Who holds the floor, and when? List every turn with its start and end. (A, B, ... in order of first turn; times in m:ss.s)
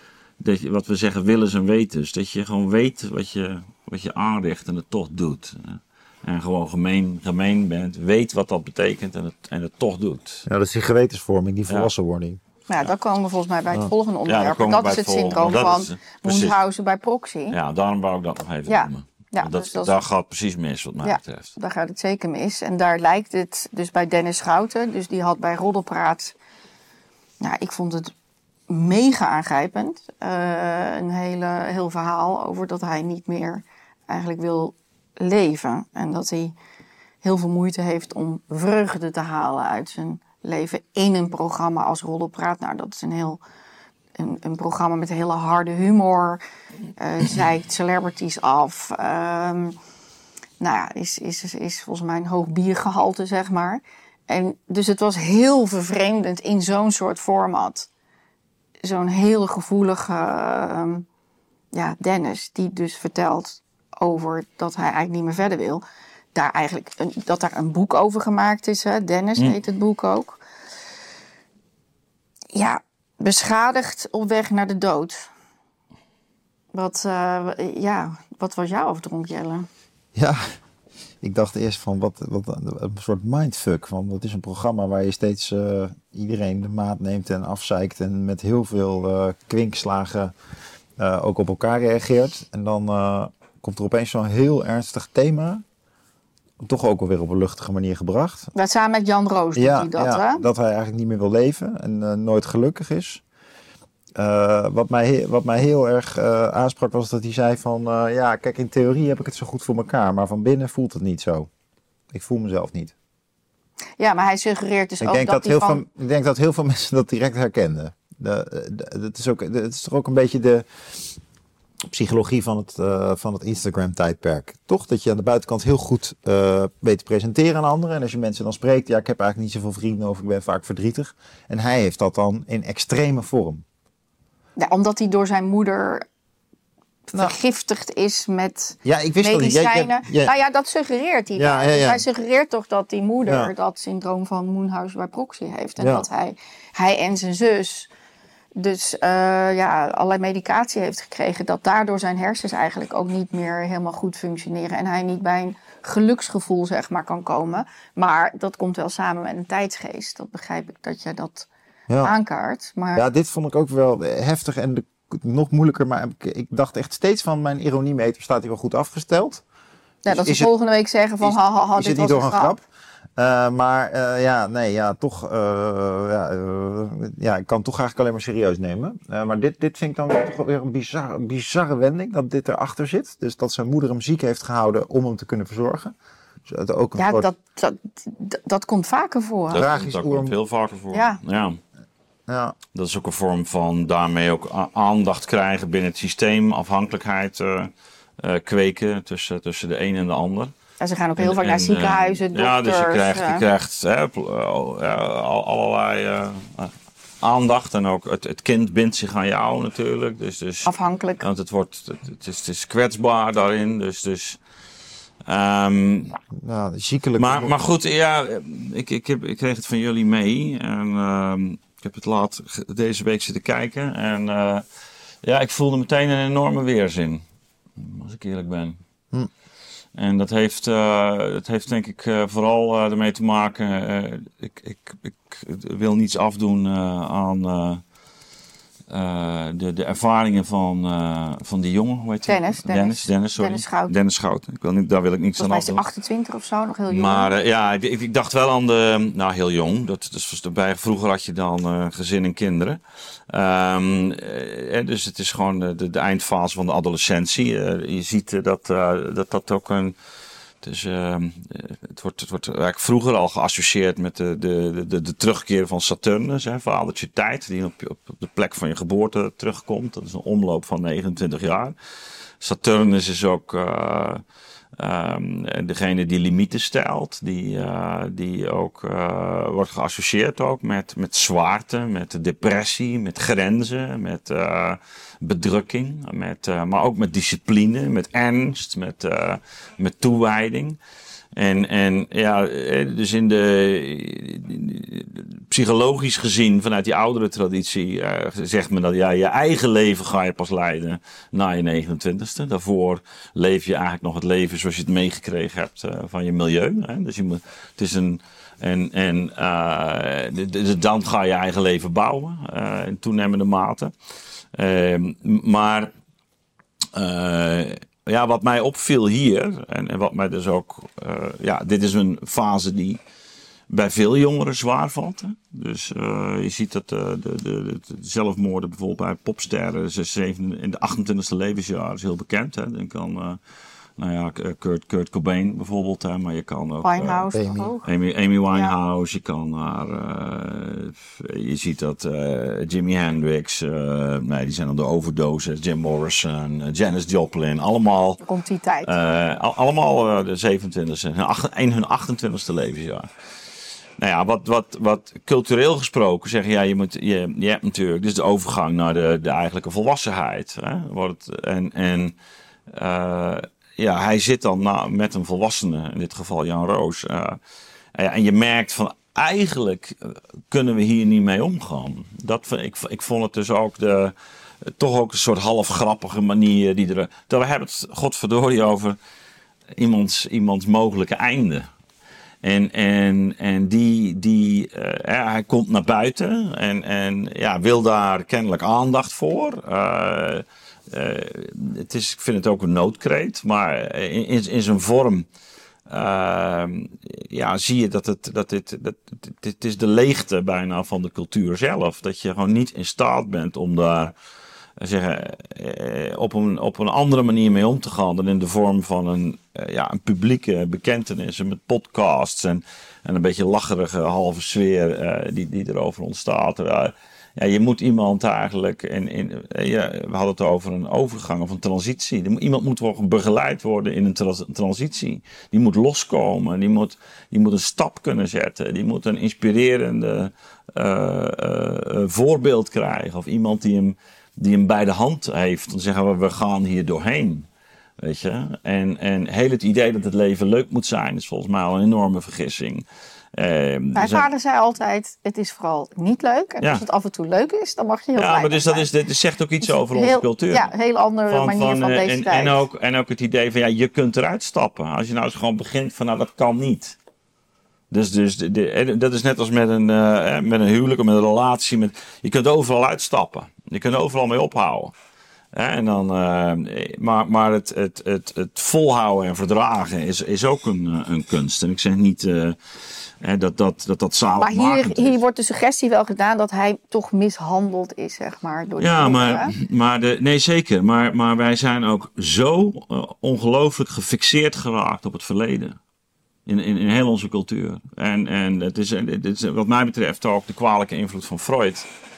0:00.4-0:10.4 A
0:10.5-0:12.4 B
0:12.7-0:17.6 C
0:14.3-0:16.6 A
0:17.5-0:21.5 A
0:18.7-0:20.0 C
0:21.0-0:26.4 C
0:27.4-0:28.1 C
0:28.7-0:36.6 C
0:37.2-0:43.4 C
0:44.2-0:46.4 C
0:47.0-0:49.8 C
0:50.6-0:57.9 C
0:58.8-1:01.0 C
1:01.7-1:05.8 C
1:06.4-1:10.4 C
1:12.5-1:15.3 C
1:16.7-1:19.7 C
1:20.2-1:20.4 B
1:21.2-1:30.3 B
1:31.0-1:35.6 B
1:36.6-1:38.5 B
1:38.6-1:40.5 C
1:39.6-1:43.2 B
1:44.2-1:51.5 B
1:52.1-1:52.9 B
1:54.0-1:55.8 C
1:55.0-2:00.6 B
2:01.9-2:13.6 B
2:14.6-2:16.1 C
2:17.1-2:27.9 C
2:18.8-2:20.3 B
2:21.4-2:22.0 B
2:23.3-2:23.5 B
2:25.8-2:26.1 B
2:28.6-2:41.5 C
2:42.0-2:43.0 C
2:43.0-2:49.4 B
2:50.1-2:52.5 C
2:50.1-2:50.5 B
2:51.2-2:52.6 B
2:53.2-3:05.9 B
3:06.5-3:07.3 B
3:07.0-3:09.6 C
3:09.5-3:11.6 A
3:09.6-3:10.4 B
3:10.9-3:11.2 C
3:12.3-3:12.6 B
3:12.7-3:20.5 A
3:20.8-3:23.4 C
3:21.2-3:34.4 A
3:30.7-3:31.3 C
3:35.2-3:36.2 A
3:36.3-3:37.6 B
3:37.2-3:44.6 A
3:45.2-3:47.2 A
3:47.8-3:48.8 A
3:50.0-3:57.8 A
3:58.9-4:05.8 A
4:02.3-4:03.9 C
4:05.4-4:07.3 C
4:06.9-4:20.0 A
4:20.6-4:31.8 A
4:32.4-4:34.2 A
4:34.8-4:50.8 A
4:51.4-5:13.9 A
5:14.5-5:15.9 A
5:16.9-5:23.0 A
5:23.7-5:33.4 A
5:34.0-5:48.2 A
5:36.8-5:37.9 C
5:37.3-5:37.7 B
5:48.2-5:48.9 C
5:48.8-5:53.1 A
5:54.0-6:02.2 A
6:02.7-6:07.4 A
6:07.9-6:19.0 A
6:19.8-6:21.7 A
6:22.4-6:35.3 A
6:35.9-6:44.1 A
6:44.8-7:17.5 A
7:18.0-7:24.3 A
7:24.0-7:28.9 C
7:28.2-7:30.7 A
7:29.7-7:32.6 C
7:31.3-7:37.0 A
7:37.9-7:44.9 A
7:45.5-7:55.2 A
7:54.4-7:59.5 C
7:58.8-8:05.8 A
8:06.5-8:11.9 A